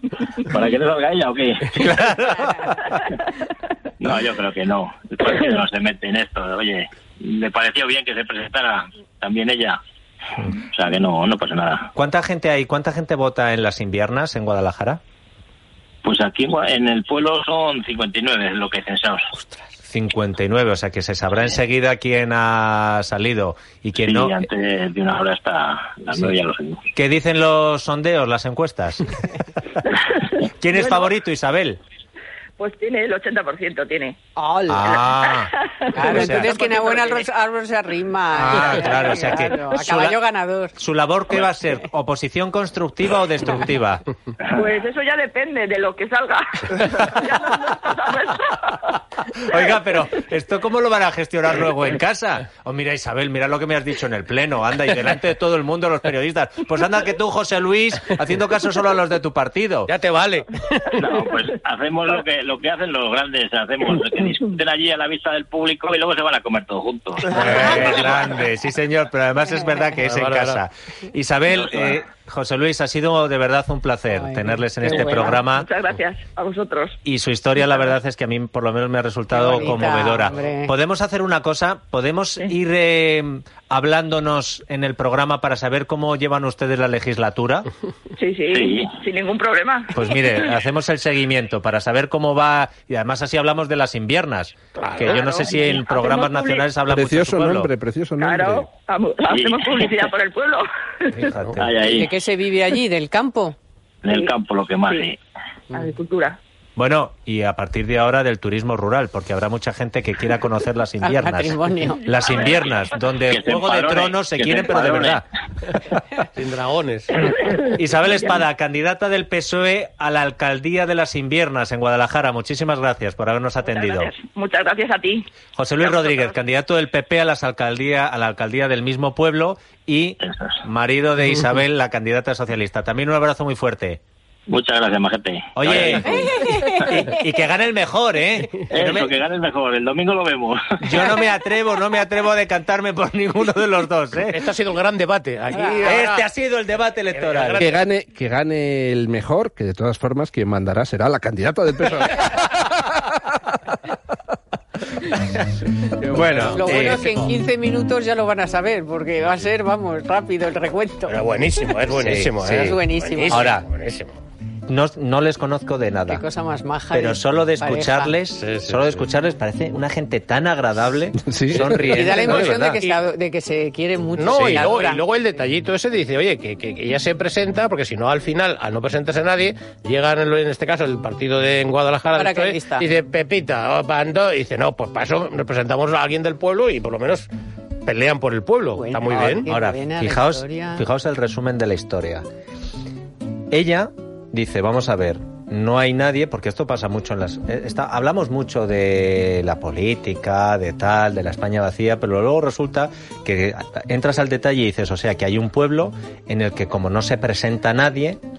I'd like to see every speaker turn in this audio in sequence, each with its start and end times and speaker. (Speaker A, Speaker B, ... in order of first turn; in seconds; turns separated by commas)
Speaker A: 0.4-2.1, Speaker B: 1.7-2.9, Speaker A: 4.0-9.8, Speaker A: 10.7-11.9, Speaker B: 11.9-15.0, Speaker A: 16.0-19.3, Speaker B: 19.9-24.4, Speaker A: 24.0-26.8, Speaker B: 26.9-29.2, Speaker B: 30.6-31.8, Speaker C: 30.7-31.1, Speaker C: 32.6-34.2, Speaker D: 34.4-35.0, Speaker B: 34.7-36.5, Speaker C: 35.0-37.2, Speaker D: 35.9-40.7, Speaker B: 38.3-40.2, Speaker C: 38.9-39.3, Speaker B: 40.8-44.0, Speaker C: 44.5-49.0, Speaker B: 49.4-59.9, Speaker C: 49.5-49.8, Speaker E: 59.9-60.9, Speaker A: 61.0-68.1, Speaker B: 67.2-75.7, Speaker E: 70.0-70.6, Speaker A: 71.5-72.0, Speaker D: 74.1-75.4, Speaker C: 74.9-77.0, Speaker B: 77.0-87.7, Speaker C: 77.6-77.9, Speaker D: 79.3-80.7, Speaker C: 88.2-90.5, Speaker A: 88.5-88.9, Speaker B: 89.9-97.7, Speaker E: 94.8-95.2, Speaker C: 95.0-96.7, Speaker F: 96.9-98.7, Speaker C: 98.2-101.3, Speaker A: 99.3-100.1, Speaker B: 101.1-101.8, Speaker A: 101.6-102.1, Speaker D: 101.9-103.6, Speaker A: 104.0-105.2, Speaker C: 104.1-104.3, Speaker C: 104.8-105.1, Speaker C: 105.7-106.4, Speaker B: 106.8-115.2, Speaker D: 111.0-112.1, Speaker C: 112.0-113.0, Speaker A: 113.3-115.2, Speaker E: 116.3-117.1, Speaker C: 117.5-118.4, Speaker B: 117.8-124.1, Speaker C: 123.6-126.4, Speaker B: 125.5-134.0, Speaker A: 130.2-130.6, Speaker A: 134.5-136.6, Speaker B: 135.5-139.1, Speaker D: 136.0-137.2, Speaker A: 138.7-141.2, Speaker B: 140.8-144.5, Speaker E: 144.3-146.3, Speaker D: 145.5-145.8, Speaker B: 145.8-147.7, Speaker E: 147.1-147.8, Speaker F: 147.6-153.2, Speaker B: 156.0-157.3, Speaker E: 156.1-156.9, Speaker D: 156.5-161.2, Speaker E: 161.1-164.2, Speaker B: 161.9-162.8, Speaker D: 162.5-163.6, Speaker B: 163.3-163.7, Speaker B: 164.7-166.2, Speaker D: 166.1-168.2, Speaker B: 166.9-172.8, Speaker E: 168.4-169.1, Speaker F: 171.2-171.9, Speaker D: 171.8-175.0, Speaker E: 172.2-173.0, Speaker E: 174.2-187.3, Speaker D: 182.1-182.9, Speaker E: 187.8-189.5, Speaker D: 188.7-190.8, Speaker B: 189.4-192.2, Speaker B: 193.5-208.2